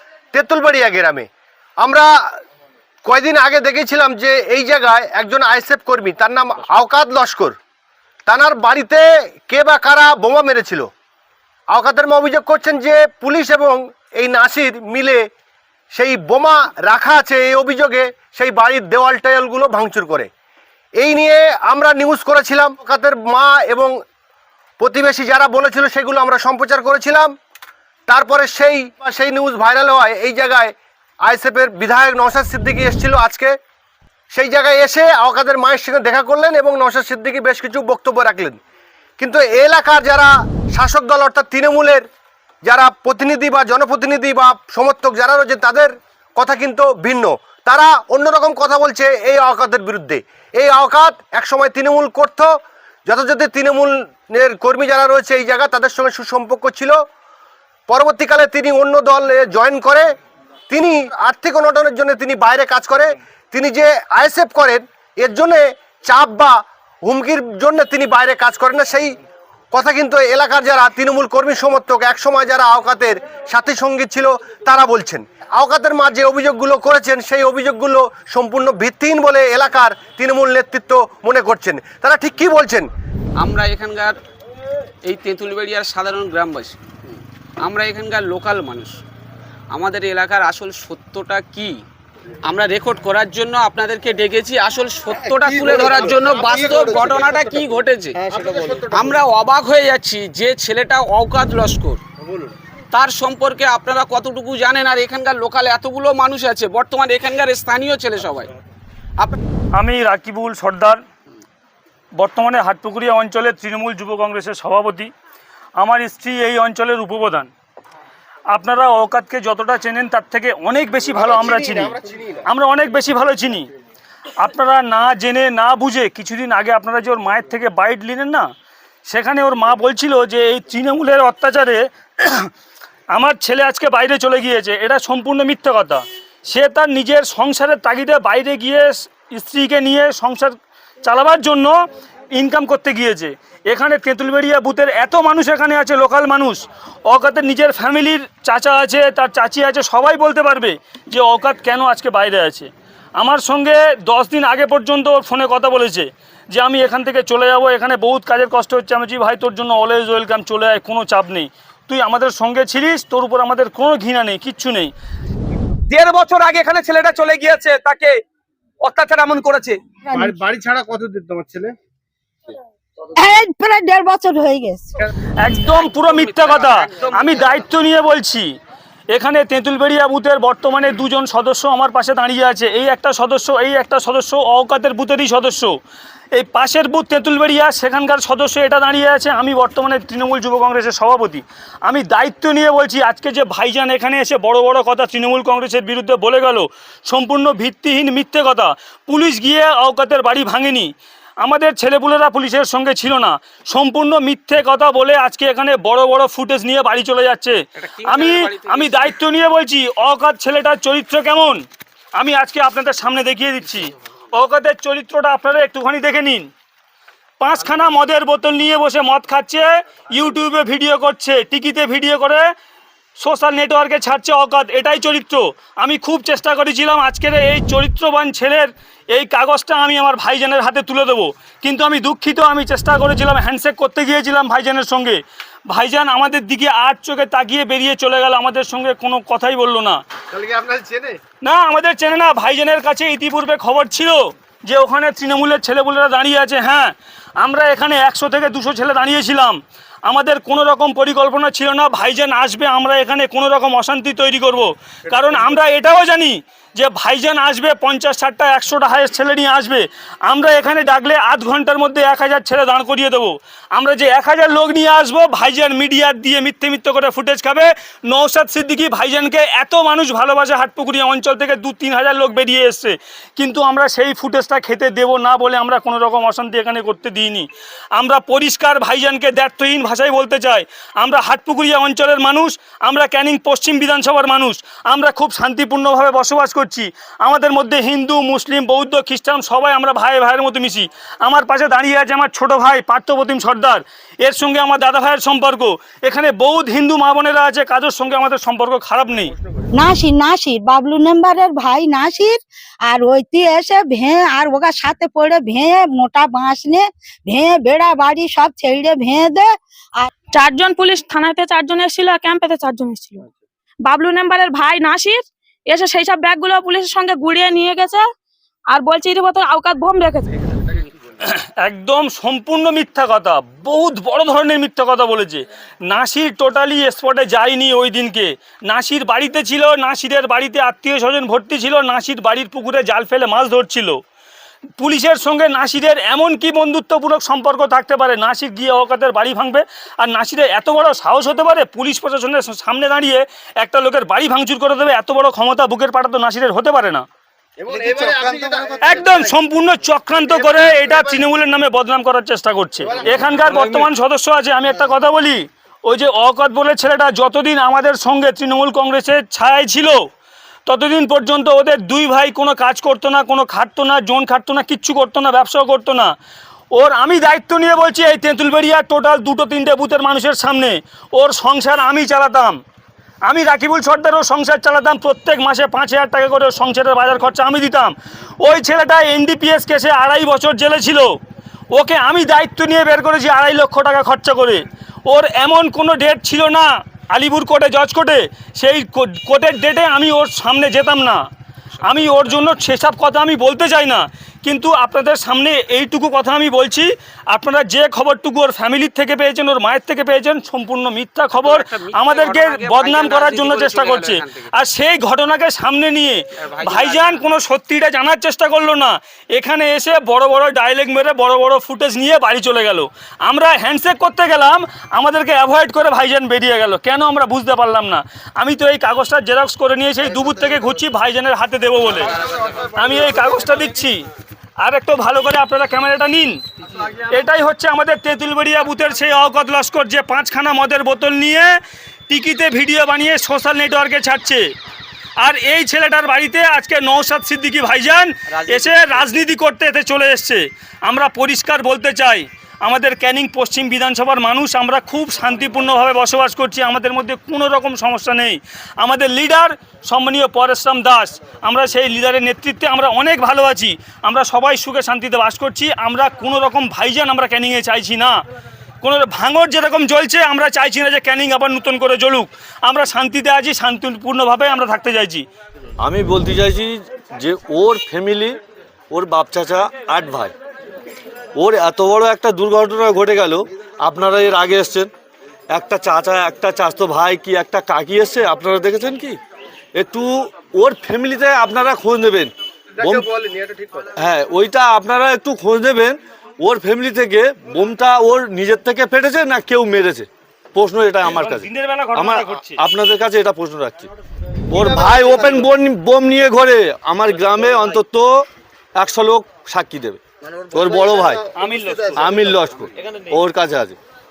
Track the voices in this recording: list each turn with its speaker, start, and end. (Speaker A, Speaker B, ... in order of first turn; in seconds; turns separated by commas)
Speaker A: 0.3-1.3, Speaker A: 1.8-2.1, Speaker A: 3.0-7.5, Speaker A: 8.2-10.9, Speaker A: 11.7-15.2, Speaker A: 15.9-20.3, Speaker A: 21.0-23.9, Speaker A: 24.8-27.3, Speaker A: 28.1-30.7, Speaker A: 31.2-33.5, Speaker A: 34.3-38.6, Speaker A: 39.2-42.0, Speaker A: 42.6-52.5, Speaker A: 53.0-57.0, Speaker A: 57.9-60.1, Speaker A: 60.7-69.2, Speaker A: 69.7-82.9, Speaker B: 83.4-84.1, Speaker B: 85.0-86.8, Speaker B: 87.6-89.0, Speaker B: 89.7-91.8, Speaker B: 92.5-98.3, Speaker A: 95.5-97.6, Speaker A: 98.2-99.2, Speaker B: 98.9-102.0, Speaker A: 102.2-102.5, Speaker B: 102.9-108.5, Speaker C: 109.7-111.0, Speaker C: 112.2-115.1, Speaker C: 115.8-117.5, Speaker C: 118.5-123.7, Speaker A: 121.1-122.5, Speaker C: 124.4-128.5, Speaker C: 129.1-132.5, Speaker C: 133.1-141.7, Speaker C: 142.3-164.9, Speaker D: 165.9-168.2, Speaker D: 168.8-169.8, Speaker E: 170.1-170.4, Speaker A: 170.1-171.8, Speaker E: 173.2-174.9, Speaker C: 175.4-178.5, Speaker B: 175.6-177.7, Speaker C: 179.1-185.7, Speaker C: 186.3-211.6, Speaker B: 207.8-209.1, Speaker C: 212.2-216.5, Speaker C: 217.4-222.4, Speaker C: 223.2-240.0, Speaker A: 240.3-241.2, Speaker C: 241.4-299.3, Speaker A: 299.2-299.7, Speaker E: 299.7-310.1, Speaker F: 310.3-313.3, Speaker F: 313.9-318.1, Speaker F: 318.7-320.4, Speaker C: 321.2-334.0, Speaker C: 334.8-347.0, Speaker A: 347.6-349.3, Speaker C: 348.8-360.1, Speaker A: 350.2-351.2, Speaker A: 352.8-353.4, Speaker G: 353.4-353.8, Speaker C: 360.6-366.1, Speaker C: 366.7-372.6, Speaker C: 373.2-381.2, Speaker C: 381.7-391.2, Speaker B: 391.8-392.6, Speaker C: 391.9-422.2, Speaker B: 401.4-404.5, Speaker B: 406.4-407.3, Speaker A: 422.5-423.3, Speaker C: 422.7-424.0, Speaker C: 424.6-426.4, Speaker C: 426.9-434.5, Speaker C: 435.2-458.2, Speaker C: 458.8-465.2, Speaker G: 465.8-468.4, Speaker G: 468.9-470.3, Speaker G: 471.4-474.9, Speaker G: 475.5-479.2, Speaker G: 479.8-483.1, Speaker A: 482.8-483.9, Speaker G: 483.9-493.9, Speaker C: 491.0-492.6, Speaker G: 494.5-498.1, Speaker G: 498.8-501.2, Speaker C: 501.4-502.2, Speaker G: 502.0-503.8